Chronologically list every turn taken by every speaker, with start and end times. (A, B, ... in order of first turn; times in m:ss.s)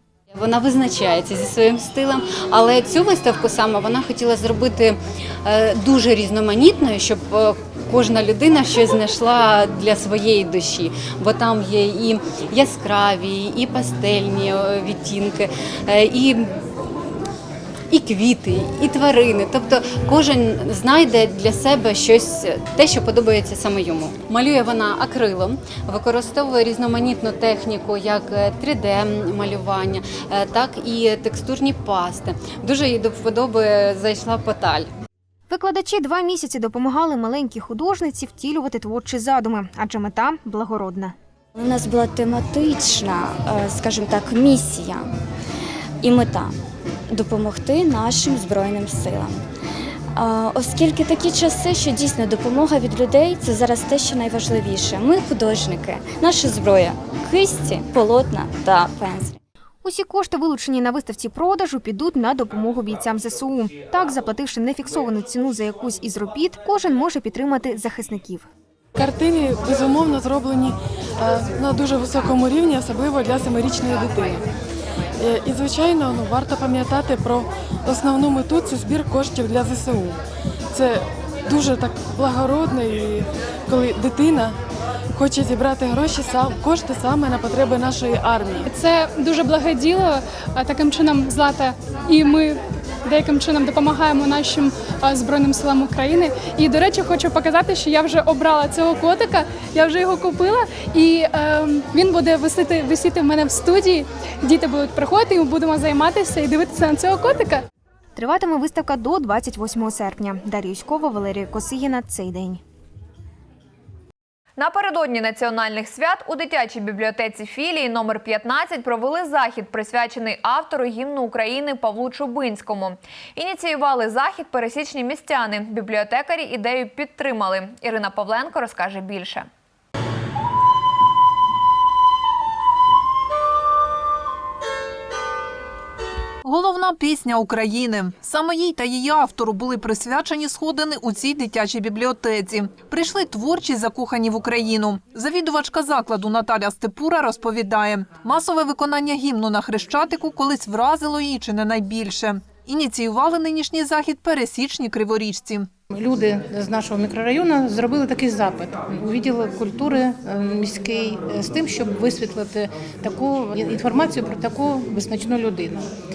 0:00.3-0:16.5 A
0:17.9-0:34.9 A
0:35.5-0:41.1 B
0:41.5-0:45.1 C
0:46.0-0:49.4 C
0:50.1-0:59.4 C
0:59.8-1:08.5 B
1:08.9-1:14.4 D
1:15.2-1:20.2 D
1:20.7-1:24.6 D
1:25.1-1:28.6 D
1:28.7-1:47.6 E
1:48.1-1:52.6 B
1:54.6-2:09.5 F
2:16.4-2:35.7 G
2:35.9-2:45.9 H